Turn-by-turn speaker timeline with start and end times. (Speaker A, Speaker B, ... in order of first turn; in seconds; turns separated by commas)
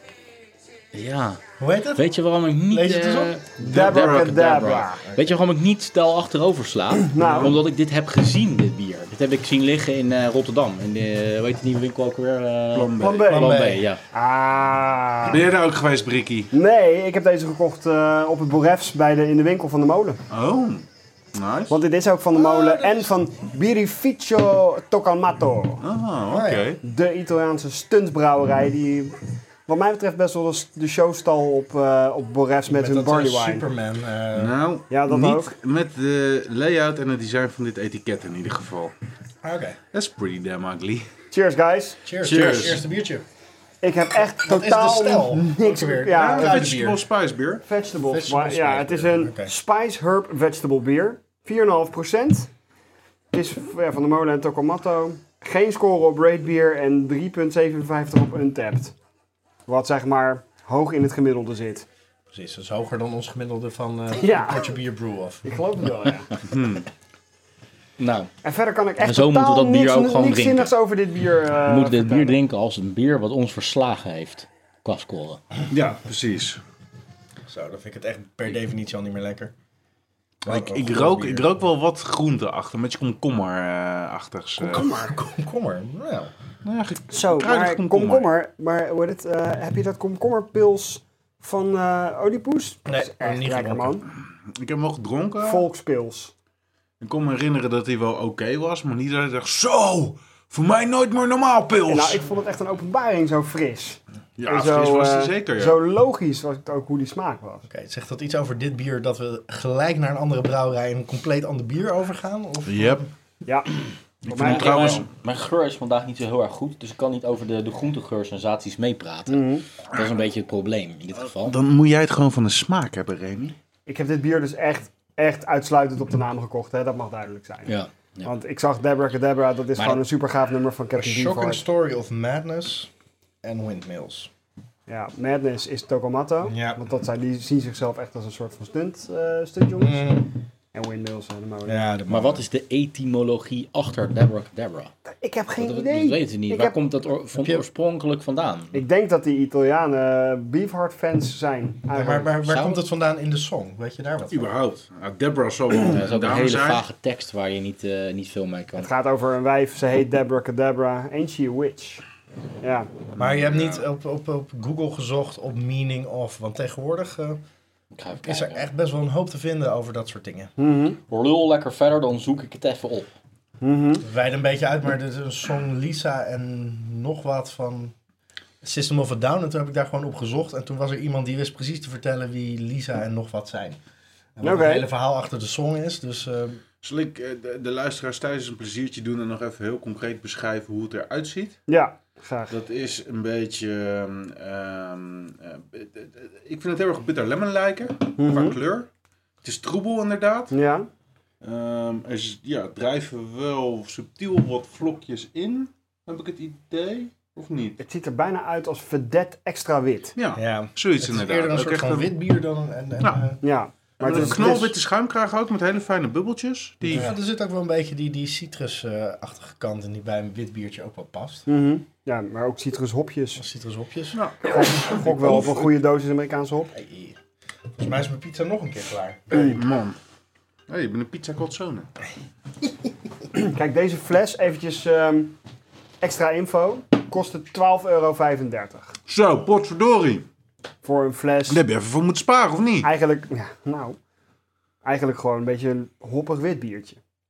Speaker A: 0.9-1.4, Speaker B: 1.6-2.1, Speaker A: 2.0-14.0, Speaker B: 2.7-3.4, Speaker C: 3.6-5.0, Speaker D: 3.6-4.5, Speaker B: 5.0-5.4, Speaker C: 7.0-7.6, Speaker D: 12.7-13.2, Speaker C: 13.0-15.4, Speaker B: 13.2-13.9, Speaker D: 15.2-16.5, Speaker C: 16.5-20.2, Speaker D: 20.3-21.8, Speaker C: 21.7-25.8, Speaker B: 22.3-23.2, Speaker D: 25.8-26.8, Speaker B: 26.3-26.8, Speaker C: 26.8-29.2, Speaker C: 29.7-33.7, Speaker B: 32.7-34.6, Speaker D: 34.3-38.9, Speaker C: 34.9-35.5, Speaker B: 39.4-39.8, Speaker D: 39.9-41.1, Speaker C: 41.3-42.0, Speaker B: 42.0-43.2, Speaker A: 42.2-42.8, Speaker D: 42.2-42.8, Speaker C: 43.8-46.7, Speaker B: 44.4-47.0, Speaker D: 46.1-47.6, Speaker C: 47.7-52.5, Speaker B: 48.1-49.5, Speaker C: 53.3-58.9, Speaker C: 59.7-61.9, Speaker B: 62.3-65.5, Speaker C: 64.2-64.8, Speaker C: 65.4-66.4, Speaker D: 66.5-66.9, Speaker A: 68.0-68.3, Speaker C: 68.4-72.4, Speaker A: 69.0-70.7, Speaker A: 71.7-75.4, Speaker D: 75.7-76.6, Speaker B: 77.5-79.5, Speaker B: 80.5-81.5, Speaker D: 80.5-84.9, Speaker B: 84.6-86.3, Speaker D: 86.6-88.3, Speaker C: 87.1-94.1, Speaker B: 92.9-94.0, Speaker D: 94.5-95.7, Speaker C: 95.4-96.3, Speaker D: 97.0-102.2, Speaker C: 101.9-107.7, Speaker D: 104.4-105.8, Speaker B: 107.7-113.1, Speaker D: 112.7-113.0, Speaker D: 114.2-115.1, Speaker C: 114.3-115.0, Speaker A: 114.4-121.6, Speaker C: 119.3-119.7, Speaker D: 121.4-123.5, Speaker C: 123.9-127.7, Speaker A: 127.7-128.3, Speaker C: 128.2-131.6, Speaker A: 129.8-130.0, Speaker B: 130.9-132.9, Speaker B: 133.4-134.3, Speaker C: 134.9-140.1, Speaker B: 136.4-136.8, Speaker B: 139.8-140.3, Speaker C: 140.7-141.9, Speaker B: 141.7-142.4, Speaker A: 142.1-144.9, Speaker C: 145.1-146.8, Speaker A: 145.6-148.8, Speaker B: 147.4-147.7, Speaker C: 148.7-152.3, Speaker B: 151.9-154.5, Speaker A: 152.5-152.8, Speaker D: 154.3-156.8, Speaker A: 155.9-158.9, Speaker C: 158.8-162.0, Speaker C: 162.6-162.9, Speaker D: 163.2-163.9, Speaker B: 163.2-167.4, Speaker A: 167.9-168.7, Speaker B: 168.2-170.5, Speaker C: 170.6-171.0, Speaker A: 171.1-173.1, Speaker C: 173.6-174.0, Speaker B: 174.0-177.9, Speaker B: 178.6-183.8, Speaker B: 184.4-186.6, Speaker C: 184.4-184.9, Speaker D: 186.8-191.6, Speaker C: 191.7-192.5, Speaker D: 192.5-198.9, Speaker C: 198.2-198.6, Speaker D: 199.4-200.5, Speaker C: 200.5-200.9, Speaker D: 201.4-207.8, Speaker C: 207.8-210.1, Speaker D: 210.2-212.1, Speaker B: 210.3-213.4, Speaker D: 213.0-213.3, Speaker C: 213.4-214.7, Speaker D: 214.0-217.1, Speaker B: 214.1-214.7, Speaker B: 216.9-221.5, Speaker C: 221.5-223.4, Speaker B: 223.4-225.7, Speaker D: 224.1-224.5, Speaker C: 224.4-226.7, Speaker D: 225.2-225.7, Speaker B: 226.7-227.2, Speaker B: 227.8-229.6, Speaker D: 229.3-230.0, Speaker C: 229.3-229.6, Speaker D: 230.7-231.9, Speaker C: 233.3-235.4, Speaker C: 236.0-238.9, Speaker D: 239.1-240.3, Speaker C: 240.8-241.6, Speaker D: 241.5-242.9, Speaker C: 242.8-244.0, Speaker C: 244.8-247.0